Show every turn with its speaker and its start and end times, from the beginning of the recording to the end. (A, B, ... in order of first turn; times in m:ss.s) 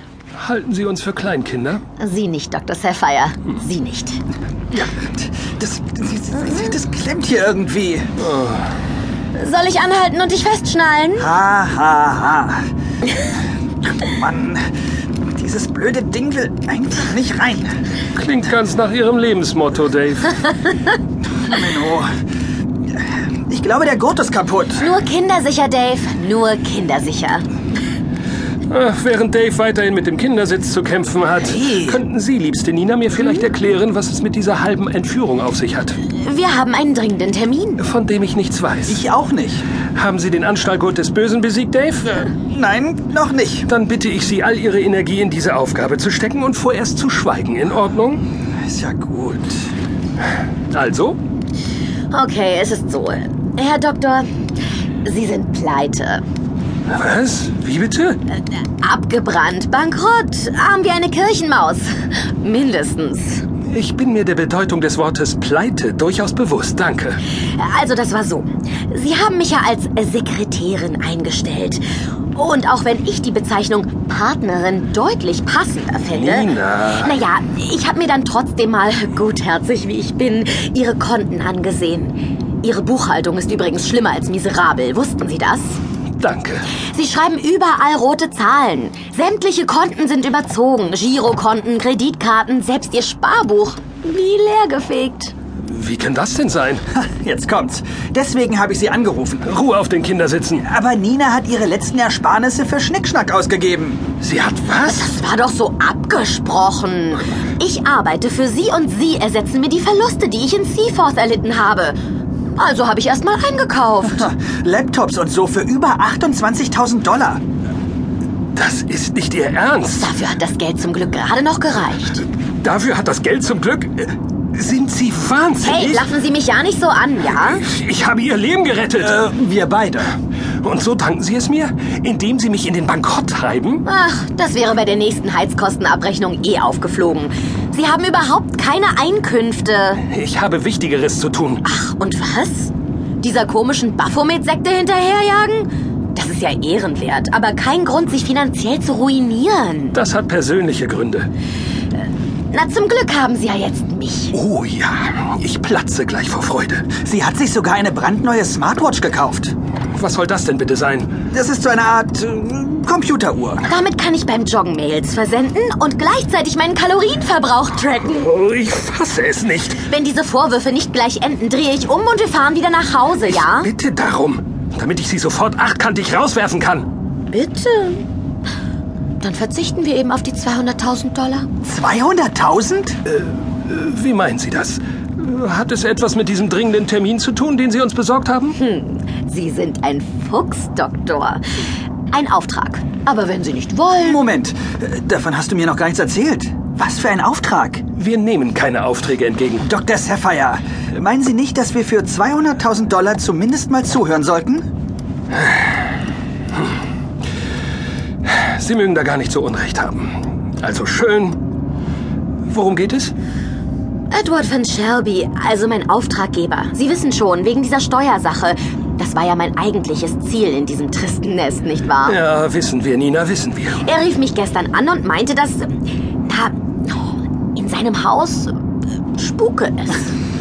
0:00.4-0:01.8 A
0:02.0-0:04.2 B
0:04.8-0:08.1 C
0:08.2-0:08.7 A
0:09.3-0:11.3 B
0:11.2-0:12.6 C
0:14.0-0:14.6 C
0:15.3-0:17.8 C
0:18.2-0:20.5 A
0:21.4-0:22.1 C
0:23.5-0:24.9 C
0:24.8-0:27.5 B
0:28.7-0:36.0 A
0:31.5-0:32.0 C
0:36.1-0:37.8 B
0:37.8-0:39.0 A
0:38.9-0:39.6 C
0:40.0-0:42.3 A
0:42.3-0:43.7 C
0:43.7-0:48.2 A
0:48.6-0:49.7 C
0:50.7-0:51.2 A
0:52.1-0:54.3 B
0:55.0-0:56.2 B
0:56.9-0:58.2 A
0:58.8-1:03.5 B
1:03.7-1:07.2 A
1:07.6-1:11.8 B
1:12.3-1:25.8 B
1:16.1-1:17.2 A
1:26.2-1:26.7 A
1:26.8-1:35.3 B
1:35.6-1:36.8 A
1:36.9-1:39.5 C
1:39.5-1:40.6 A
1:40.6-1:44.1 C
1:44.2-1:45.1 A
1:44.8-1:52.0 B
1:52.6-1:54.3 B
1:54.2-1:57.4 C
1:58.6-2:00.1 A
1:59.9-2:02.2 B
2:02.6-2:06.1 A
2:05.6-2:07.6 B
2:07.6-2:09.2 A
2:09.0-2:10.1 C
2:10.6-2:13.8 A
2:13.8-2:20.0 B
2:20.0-2:21.6 A
2:21.6-2:30.0 B
2:29.9-2:31.3 A
2:32.5-2:34.4 B
2:34.3-2:36.9 A
2:37.0-2:39.5 C
2:40.0-2:41.1 A
2:41.3-2:43.7 C
2:43.6-2:48.3 B
2:48.1-2:49.8 A
2:49.8-2:53.7 B
2:53.2-2:56.9 A
2:57.3-2:58.0 B
2:59.2-3:01.5 B
3:01.6-3:03.0 C
3:03.1-3:08.6 A
3:08.5-3:11.4 B
3:12.1-3:14.2 B
3:14.0-3:17.8 C
3:18.0-3:19.6 A
3:19.6-3:24.6 C
3:28.2-3:31.4 A
3:32.5-3:33.1 A
3:34.1-3:42.2 B
3:42.1-3:43.9 A
3:43.8-3:48.6 B
3:49.1-3:50.1 B